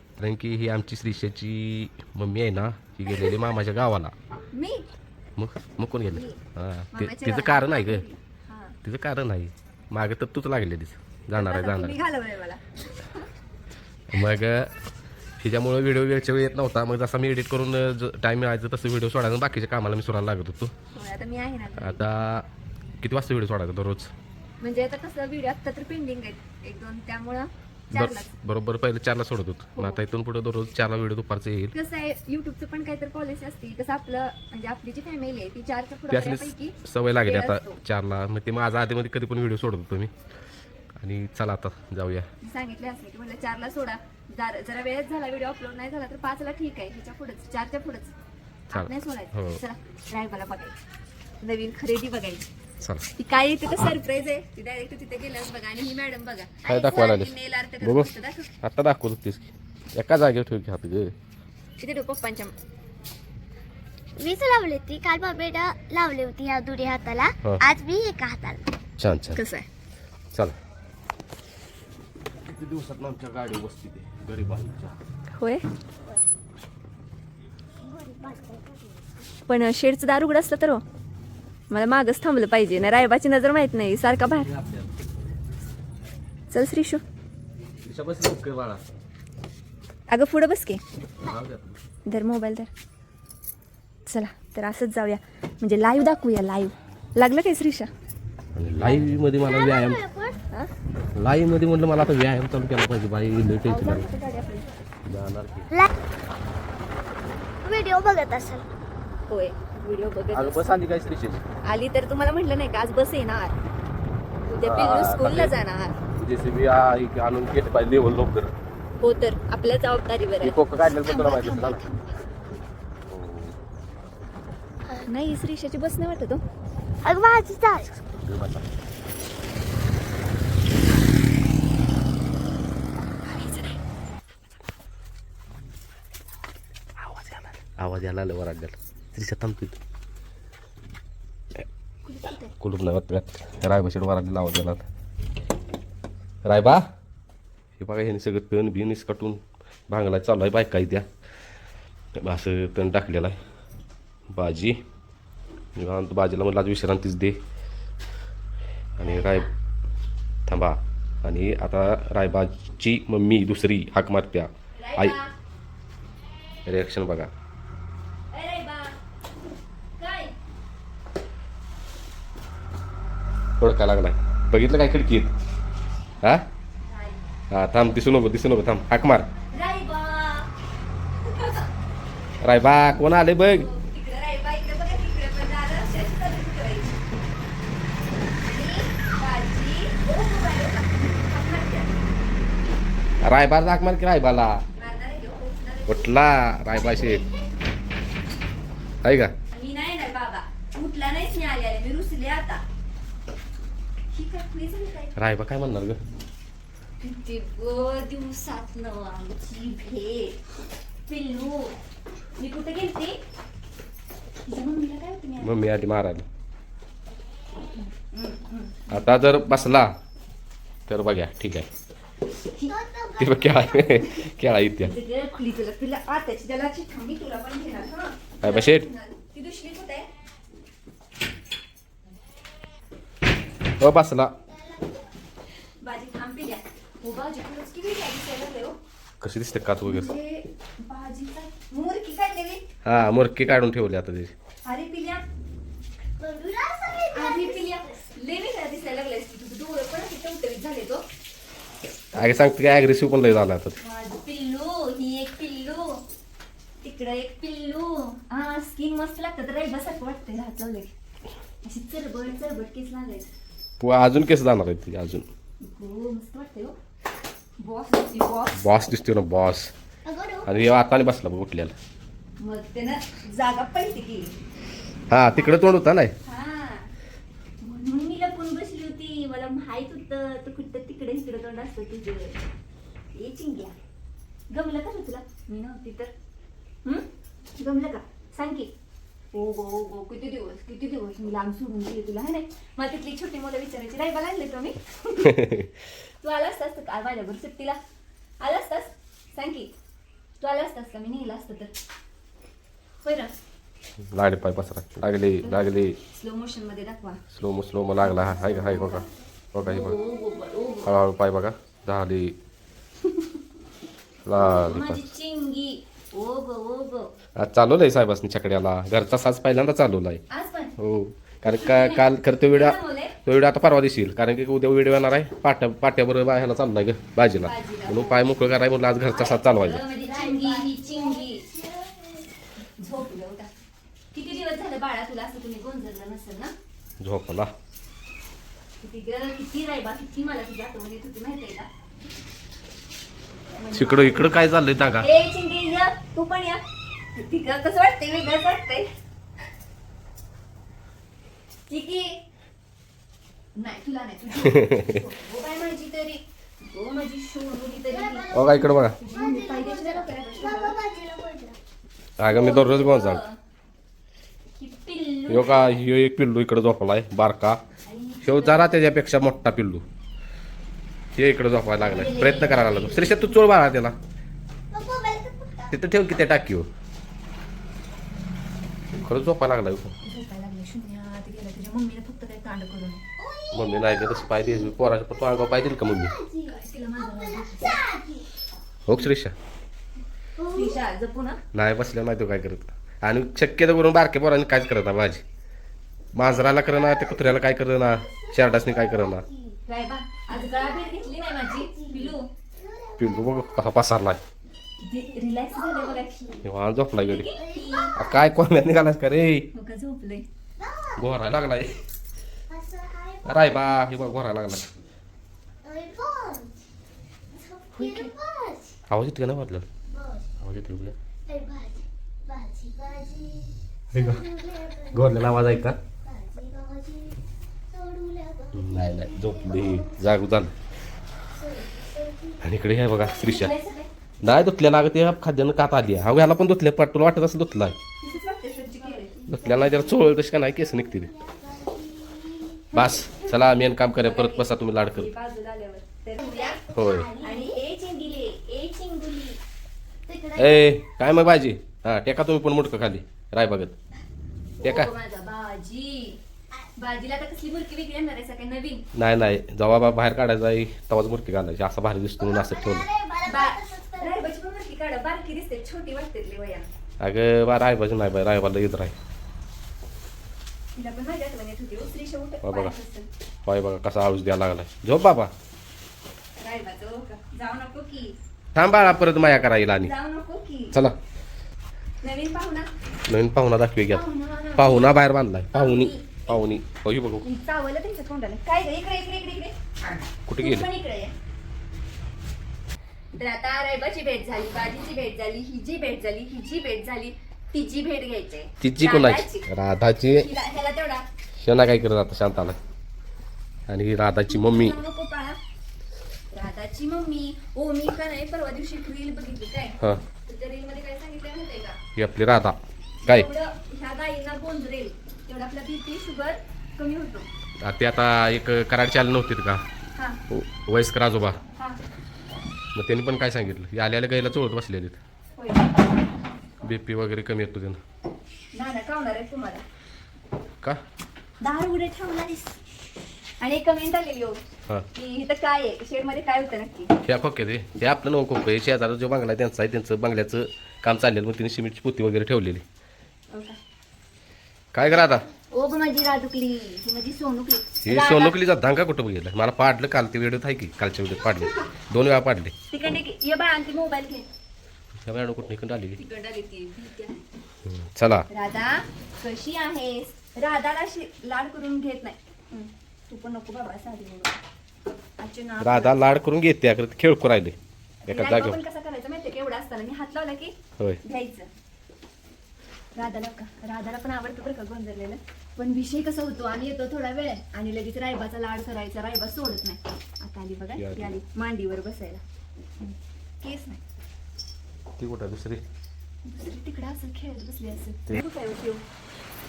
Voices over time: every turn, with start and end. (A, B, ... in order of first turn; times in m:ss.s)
0:00.2-0:04.1 A
0:04.5-0:04.8 B
0:05.4-0:08.0 A
0:06.1-0:06.4 B
0:06.9-0:08.8 B
0:08.8-0:12.0 A
0:11.3-0:13.2 B
0:14.1-0:14.8 A
0:15.4-0:20.7 A
0:20.9-0:22.0 B
0:21.8-0:22.5 A
0:23.0-0:24.1 A
0:24.6-0:28.3 B
0:27.9-0:31.7 A
0:29.7-0:30.0 B
0:31.7-0:37.8 B
0:36.1-0:40.1 A
0:41.0-0:42.3 A
0:42.4-0:48.1 B
0:48.7-0:49.6 A
0:48.7-0:50.8 B
0:51.4-0:52.4 B
0:52.8-0:53.1 A
0:53.2-0:58.5 B
0:56.6-0:58.1 A
0:58.6-1:01.1 A
1:01.8-1:02.6 B
1:04.2-1:08.6 C
1:09.0-1:09.4 A
1:09.3-1:09.7 B
1:12.4-1:15.0 A
1:15.3-1:15.6 B
1:17.8-1:19.1 C
1:19.5-1:20.8 B
1:21.7-1:24.5 B
1:24.3-1:25.1 A
1:26.5-1:27.0 B
1:27.8-1:28.8 A
1:30.1-1:30.8 B
1:31.2-1:31.8 A
1:32.0-1:32.7 B
1:34.1-1:37.9 B
1:38.5-1:40.0 A
1:39.3-1:40.4 C
1:41.2-1:44.1 A
1:43.7-1:44.7 B
1:45.0-1:45.7 A
1:47.6-1:48.7 C
1:49.3-1:50.7 B
1:50.3-1:51.4 A
1:51.6-1:53.6 B
1:54.5-1:56.0 B
1:54.6-1:55.5 A
1:56.2-1:58.5 A
1:59.0-2:02.0 B
2:00.4-2:01.8 A
2:03.1-2:03.6 A
2:05.0-2:06.4 B
2:07.0-2:07.9 C
2:07.8-2:08.7 A
2:13.2-2:13.8 B
2:17.0-2:19.8 A
2:22.0-2:22.5 B
2:22.5-2:24.8 A
2:26.4-2:26.9 A
2:27.8-2:31.1 A
2:32.2-2:33.4 A
2:34.3-2:34.8 A
2:35.8-2:37.4 A
2:39.0-2:39.5 A
2:39.0-2:39.5 B
2:40.5-2:45.2 A
2:44.8-2:45.3 B
2:46.6-2:47.3 A
2:48.3-2:49.0 B
2:50.0-2:50.3 B
2:53.6-2:55.3 A
2:56.8-2:57.2 B
2:57.5-2:59.3 A
2:59.5-3:00.5 B
3:01.2-3:01.6 B
3:02.4-3:03.7 A
3:03.5-3:07.0 B
3:08.4-3:11.9 B
3:13.2-3:14.6 A
3:14.8-3:16.5 B
3:15.9-3:17.2 A
3:16.9-3:17.2 C
3:19.0-3:19.3 A
3:19.5-3:22.6 B
3:24.1-3:25.2 B
3:25.2-3:26.0 A
3:27.0-3:30.4 B
3:31.1-3:31.7 B
3:32.4-3:33.2 B
3:34.5-3:35.6 B
3:35.4-3:36.3 A
3:37.8-3:39.2 B
3:38.9-3:39.9 A
3:40.9-3:41.7 A
3:42.7-3:44.0 C
3:43.2-3:44.9 A
3:44.8-3:50.1 B
3:48.4-3:48.9 A
3:53.8-3:54.3 A
3:54.6-3:54.8 C
3:55.8-3:58.8 B
3:59.2-4:00.1 A
3:59.8-4:02.6 B
4:02.8-4:04.3 A
4:04.6-4:05.2 B
4:06.2-4:08.0 C
4:07.1-4:11.0 B
4:12.1-4:13.8 A
4:13.8-4:16.0 B
4:16.8-4:20.9 B
4:21.6-4:23.3 B
4:23.8-4:25.3 A
4:25.6-4:26.8 B
4:27.6-4:28.6 B
4:28.5-4:29.7 A
4:30.0-4:30.6 C
4:30.4-4:31.7 A
4:32.4-4:34.3 B
4:35.1-4:36.1 A
4:36.2-4:36.9 B
4:37.6-4:42.4 B
4:43.1-4:43.7 B
4:44.5-4:46.1 B
4:47.6-4:48.7 B
4:49.3-4:55.4 B
4:55.2-4:55.7 A
4:56.2-4:57.8 B
4:58.4-4:59.7 B
5:00.4-5:01.7 B
5:03.0-5:03.3 B
5:04.0-5:06.0 A
5:05.4-5:07.2 B
5:07.3-5:10.0 A
5:08.0-5:09.0 B
5:09.6-5:10.9 B
5:09.9-5:10.5 C
5:10.8-5:12.4 A
5:14.2-5:15.1 A
5:14.4-5:17.1 B
5:17.4-5:20.2 A
5:20.3-5:20.7 B
5:20.8-5:29.8 A
5:21.5-5:23.2 B
5:27.4-5:28.3 B
5:29.0-5:31.4 B
5:30.0-5:32.2 C
5:32.8-5:33.5 B
5:34.1-5:36.5 B
5:37.0-5:37.5 A
5:38.8-5:41.7 B
5:43.5-5:44.3 B
5:43.7-5:45.1 A
5:45.0-5:46.6 B
5:47.1-5:48.9 B
5:51.7-5:52.2 B
5:53.6-5:58.3 B
5:54.4-5:55.0 A
5:57.9-6:01.6 C
5:58.3-5:59.0 A
5:59.0-6:00.8 B
6:02.2-6:03.2 A
6:02.3-6:03.4 B
6:04.6-6:05.8 B
6:05.3-6:07.6 A
6:07.8-6:08.8 B
6:08.2-6:09.8 A
6:11.2-6:14.0 A
6:11.8-6:13.3 B
6:14.7-6:15.9 C
6:15.7-6:16.7 A
6:19.0-6:20.0 A
6:20.0-6:23.0 B
6:23.2-6:28.3 C
6:23.5-6:26.2 A
6:26.4-6:27.8 B
6:28.8-6:29.3 A
6:30.4-6:30.8 C
6:30.5-6:31.4 B
6:31.5-6:35.2 A
6:36.1-6:39.2 A
6:36.2-6:37.3 C
6:38.0-6:39.6 C
6:39.7-6:42.3 B
6:40.3-6:43.8 C
6:43.0-6:44.2 A
6:44.8-6:46.4 B
6:45.3-6:46.4 C
6:46.4-6:47.3 A
6:47.0-6:48.0 B
6:47.3-6:48.1 C
6:48.0-6:49.5 A
6:49.5-6:50.3 B
6:50.6-6:51.1 C
6:51.0-6:51.8 A
6:52.5-6:54.1 C
6:53.2-6:54.7 A
6:55.6-6:56.7 C
6:57.3-6:58.8 C
6:57.7-6:58.1 B
6:58.9-6:59.7 A
6:59.9-7:00.3 C
7:00.4-7:01.0 A
7:01.3-7:05.5 C
7:03.9-7:04.2 A
7:04.9-7:05.8 A
7:06.0-7:07.2 C
7:07.7-7:10.1 C
7:08.5-7:10.5 A
7:11.3-7:13.6 C
7:12.4-7:13.5 A
7:13.2-7:13.9 B
7:14.2-7:17.8 A
7:18.0-7:19.2 B
7:18.8-7:22.6 C
7:19.3-7:21.1 A
7:22.7-7:26.6 B
7:22.7-7:25.1 A
7:26.2-7:27.6 C
7:26.7-7:27.1 A
7:27.2-7:29.4 B
7:30.1-7:30.9 C
7:30.4-7:33.8 A
7:34.6-7:34.9 A
7:34.6-7:36.2 B
7:36.8-7:38.8 B
7:38.9-7:42.9 A
7:42.2-7:44.3 C
7:43.2-7:46.7 B
7:47.0-7:49.0 A
7:50.7-7:53.1 B
7:52.4-7:52.7 A
7:53.4-7:55.3 A
7:56.4-7:58.2 B
7:58.5-7:59.9 A
7:59.8-8:00.8 B
8:02.0-8:02.7 B
8:03.1-8:07.2 A
8:03.9-8:04.9 B
8:05.5-8:06.2 B
8:07.2-8:09.6 B
8:10.3-8:10.7 A
8:10.4-8:11.1 B
8:13.1-8:19.4 B
8:18.6-8:20.3 A
8:20.2-8:21.0 B
8:21.4-8:22.6 A
8:23.7-8:24.8 A
8:24.3-8:25.4 B
8:26.3-8:31.8 B
8:32.0-8:33.3 A
8:33.0-8:37.3 B
8:37.6-8:39.6 A
8:40.3-8:41.4 A
8:42.7-8:45.0 A
8:45.4-8:46.0 B
8:46.6-8:47.8 A
8:48.5-8:49.6 B
8:51.4-8:52.6 B
8:53.4-8:54.4 B
8:54.9-8:56.9 B
8:57.0-9:02.6 A
9:03.3-9:03.6 B
9:04.7-9:05.2 A
9:05.5-9:08.4 B
9:07.8-9:12.5 A
9:12.7-9:14.3 B
9:15.0-9:16.0 A
9:16.0-9:17.2 B
9:17.6-9:18.3 A
9:18.3-9:24.4 B
9:25.2-9:26.0 B
9:25.6-9:27.6 A
9:28.0-9:31.5 B
9:28.1-9:28.6 A
9:32.9-9:42.2 B
9:40.7-9:41.1 A
9:42.8-9:43.8 B
9:45.0-9:45.6 A
9:46.2-9:48.8 B